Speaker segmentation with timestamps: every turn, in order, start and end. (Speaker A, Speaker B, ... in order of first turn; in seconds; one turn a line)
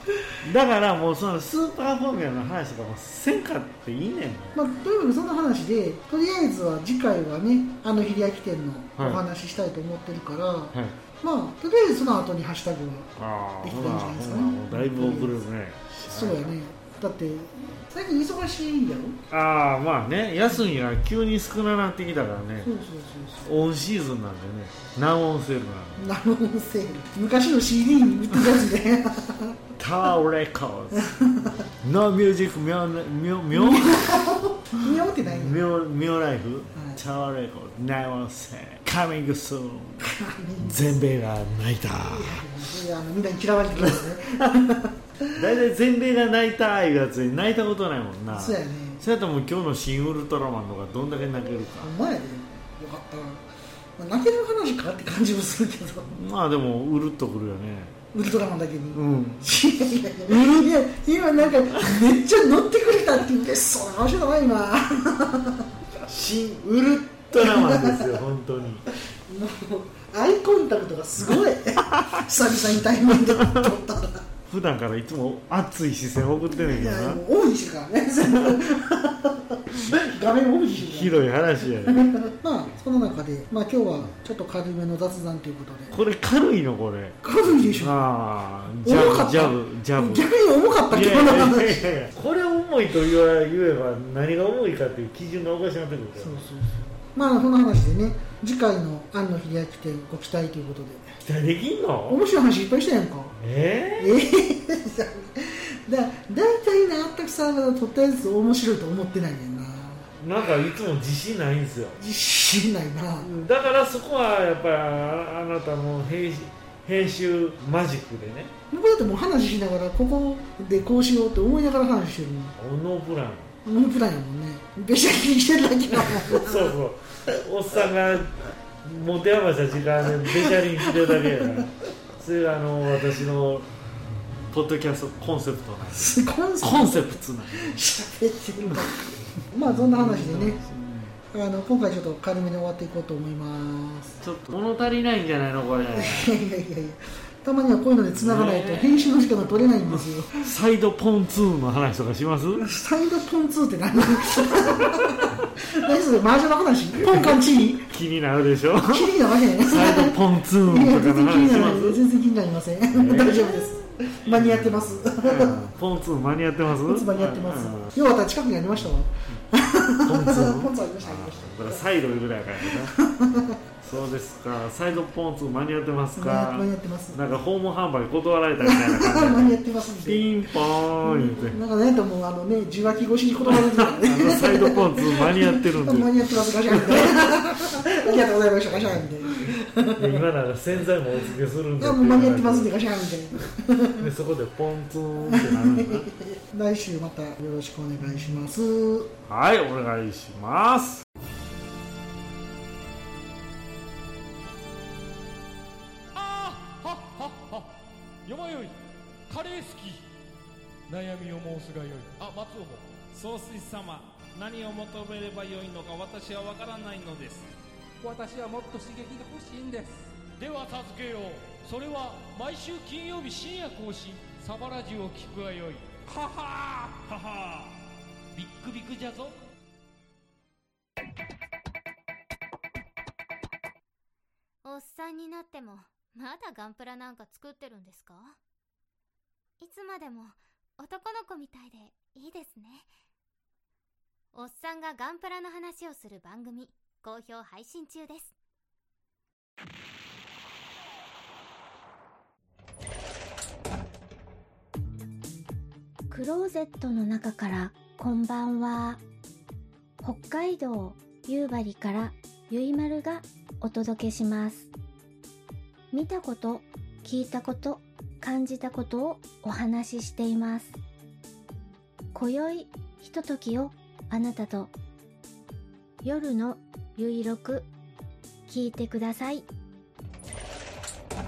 Speaker A: 0.4-4.5
Speaker B: 4.5-15.4
Speaker A: 9.0-9.2
Speaker A: 13.2-16.6
Speaker B: 16.1-19.2
Speaker A: 19.3-22.7
Speaker B: 22.6-23.4
Speaker A: 23.4-26.0
Speaker B: 26.0-29.6
Speaker A: 29.8-31.1
Speaker B: 30.9-31.6
Speaker A: 31.8-34.2
Speaker B: 33.5-35.6
Speaker A: 34.8-40.1
Speaker B: 36.7-37.0
Speaker B: 40.0-41.0
Speaker A: 40.6-42.4
Speaker B: 42.0-45.4
Speaker A: 43.7-44.5
Speaker A: 45.3-51.9
Speaker B: 48.3-49.0
Speaker B: 51.8-53.4
Speaker B: 54.0-56.1
Speaker A: 56.1-58.0
Speaker B: 58.1-65.7
Speaker A: 58.9-59.5
Speaker A: 60.2-60.7
Speaker A: 66.0-68.8
Speaker B: 67.3-68.2
Speaker B: 69.3-74.2
Speaker A: 73.1-73.7
Speaker A: 74.5-77.2
Speaker B: 76.6-81.2
Speaker A: 80.8-82.1
Speaker B: 81.8-86.0
Speaker A: 85.9-90.3
Speaker B: 87.2-87.9
Speaker B: 88.8-91.8
Speaker A: 90.9-96.4
Speaker B: 96.2-101.2
Speaker A: 101.2-102.2
Speaker B: 102.1-103.3
Speaker A: 103.4-104.2
Speaker B: 104.0-110.1
Speaker A: 110.2-112.0
Speaker B: 112.0-113.5
Speaker A: 113.2-118.5
Speaker B: 118.7-122.5
Speaker A: 122.6-123.5
Speaker B: 123.6-126.7
Speaker A: 126.1-133.7
Speaker B: 131.0-131.6
Speaker A: 134.5-137.8
Speaker B: 135.9-140.6
Speaker A: 138.6-139.1
Speaker A: 139.6-141.2
Speaker B: 141.3-144.2
Speaker A: 144.2-146.3
Speaker B: 145.9-150.4
Speaker A: 148.2-152.6
Speaker B: 152.6-157.9
Speaker A: 154.4-155.2
Speaker A: 157.0-162.0
Speaker B: 158.8-165.6
Speaker A: 162.9-167.9
Speaker B: 166.9-171.8
Speaker A: 170.0-172.9
Speaker B: 172.9-173.6
Speaker A: 173.8-181.6
Speaker B: 176.2-177.2
Speaker B: 178.6-180.3
Speaker B: 181.0-190.2
Speaker A: 183.4-187.3
Speaker A: 188.9-192.7
Speaker B: 191.8-194.1
Speaker A: 194.0-196.1
Speaker B: 195.2-199.1
Speaker A: 199.3-201.0
Speaker C: 206.1-208.8
Speaker C: 209.3-210.0
Speaker C: 210.9-212.9
Speaker D: 213.1-217.5
Speaker E: 218.0-220.1
Speaker C: 220.4-225.9
Speaker C: 227.0-227.7
Speaker C: 228.3-229.3
Speaker F: 234.6-238.4
Speaker F: 239.6-242.9
Speaker F: 244.3-248.3
Speaker G: 256.1-259.0
Speaker G: 260.0-264.7
Speaker G: 265.9-270.8
Speaker G: 272.1-274.7
Speaker G: 276.0-277.7
Speaker G: 278.5-279.4